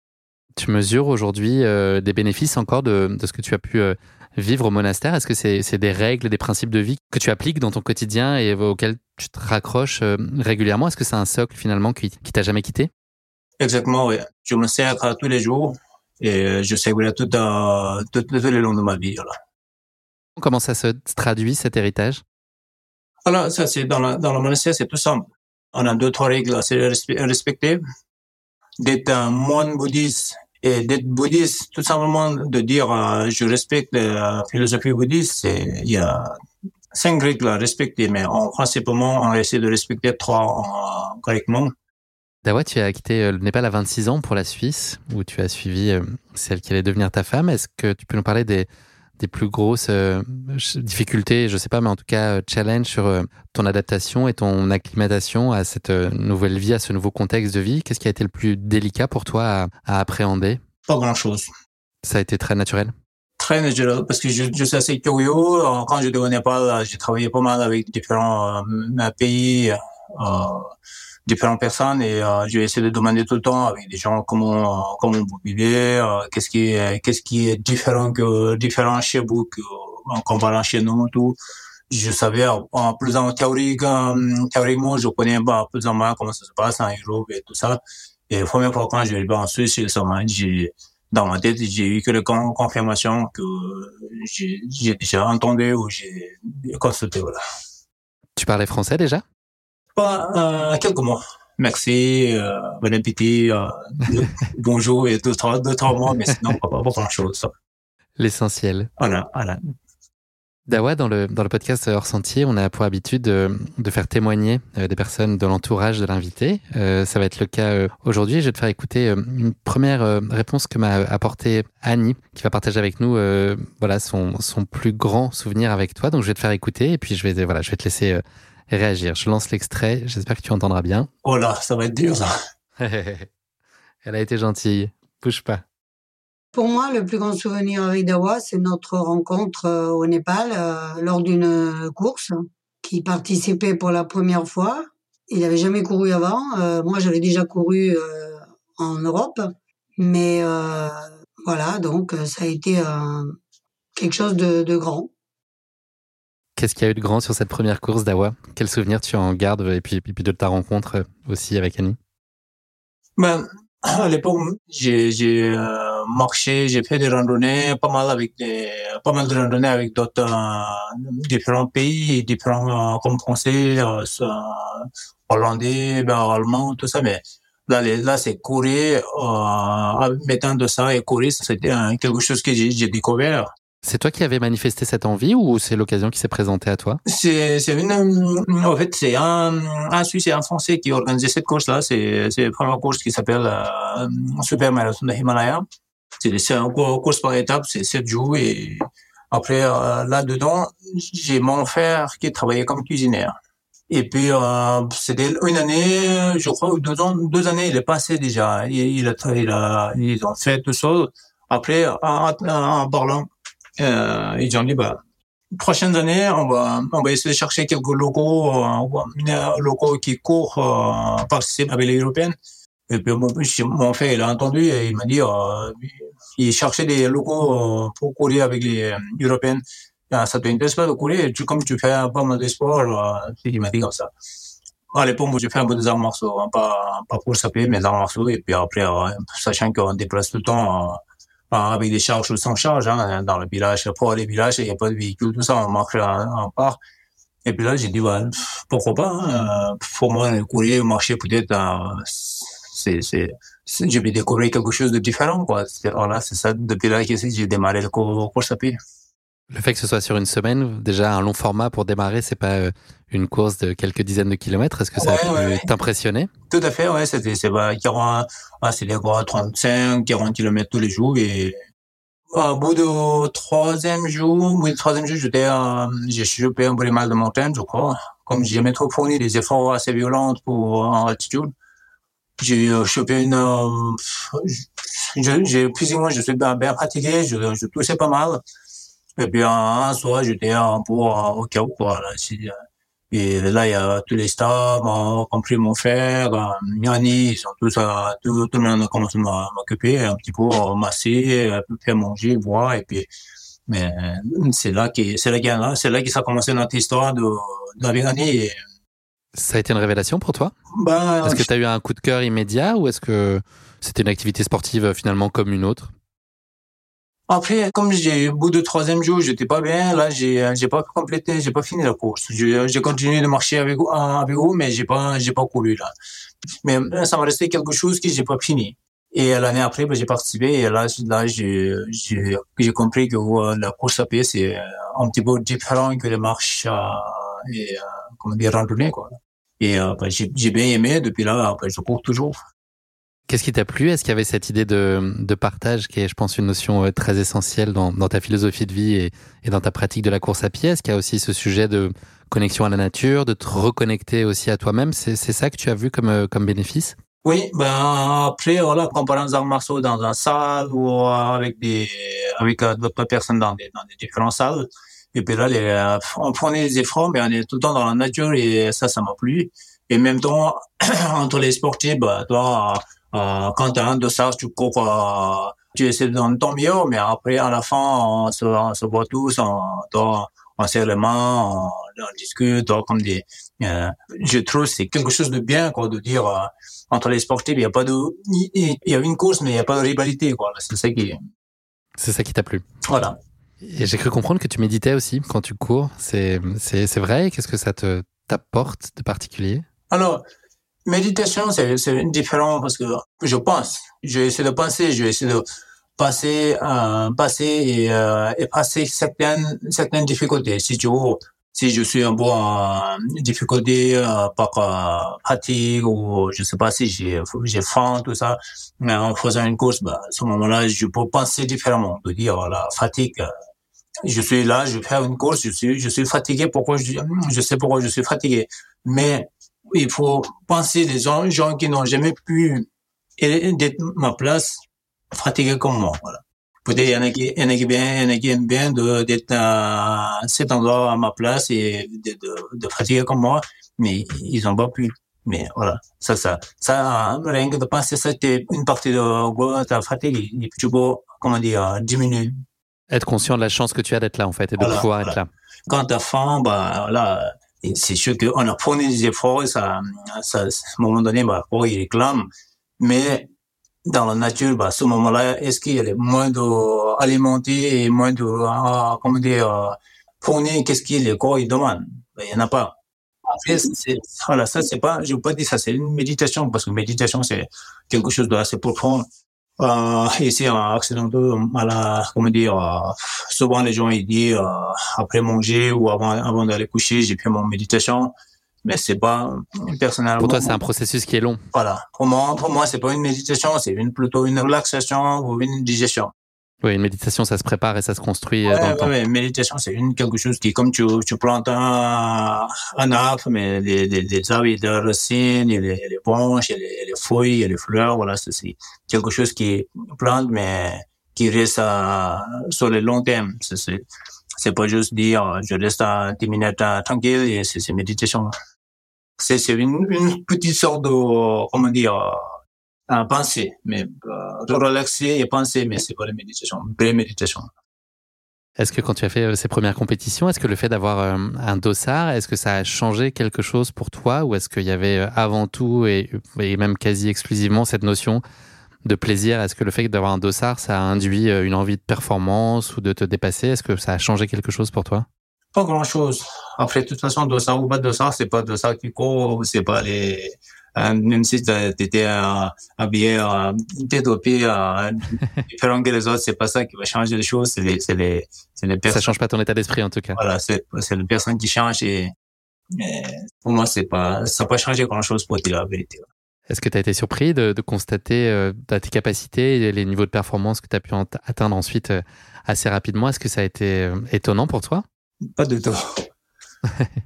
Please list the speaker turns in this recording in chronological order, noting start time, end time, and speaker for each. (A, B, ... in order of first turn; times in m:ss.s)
0:00.6-0:12.9 A
0:13.6-0:19.3 B
0:20.4-0:22.2 A
0:23.2-0:27.8 B
0:28.8-0:36.3 B
0:36.9-0:41.7 B
0:42.4-0:48.7 A
0:49.2-1:00.6 A
1:00.9-1:01.5 B
1:02.0-1:02.9 A
1:03.4-1:10.7 B
1:11.2-1:21.4 B
1:21.9-1:37.4 B
1:38.4-1:39.2 A
1:39.9-1:47.5 B
1:48.2-1:48.9 A
1:49.0-1:49.6 B
1:50.7-2:11.1 A
2:11.2-2:12.3 B
2:12.8-2:13.3 A
2:14.0-2:15.6 A
2:16.5-2:33.4 C
2:34.0-2:35.1 C
2:36.6-2:42.0 A
2:43.2-3:03.5 B
3:03.8-3:07.0 A
3:07.0-3:15.6 B
3:16.2-3:23.3 B
3:23.9-3:33.3 B
3:33.8-3:35.0 B
3:35.6-3:42.4 B
3:42.9-3:54.1 B
3:54.9-4:06.8 B
4:07.4-4:18.8 B
4:19.5-4:26.3 A
4:25.0-4:25.6 B
4:26.5-4:31.6 B
4:32.3-4:41.5 B
4:42.4-4:48.4 B
4:49.2-4:52.5 B
4:53.1-5:03.1 B
5:03.7-5:08.6 B
5:09.3-5:10.5 A
5:10.7-5:11.5 B
5:11.2-5:15.9 A
5:17.3-5:25.9 B
5:26.6-5:42.4 B
5:43.3-5:57.0 A
5:57.2-6:31.2 B
6:32.0-6:32.6 A
6:32.9-6:33.2 B
6:33.6-6:39.6 A
6:39.9-6:40.2 B
6:40.8-6:45.4 B
6:46.0-7:03.3 B
7:04.0-7:12.7 B
7:13.2-7:32.3 B
7:32.9-7:35.3 A
7:34.6-7:42.3 B
7:42.8-7:43.3 B
7:43.8-7:52.8 B
7:53.3-7:59.1 B
7:59.6-8:08.1 B
8:08.6-8:10.6 B
8:10.2-8:11.4 A
8:11.5-8:16.1 B
8:16.6-8:18.9 A
8:18.5-8:33.8 B
8:34.4-8:38.3 B
8:39.2-8:42.2 B
8:42.9-8:47.5 B
8:48.6-8:58.2 A
8:58.8-9:05.1 A
9:05.5-9:19.1 B
9:18.9-9:20.2 A
9:20.1-9:22.1 B
9:22.7-9:26.0 B
9:26.5-9:34.8 A
9:35.2-9:35.8 B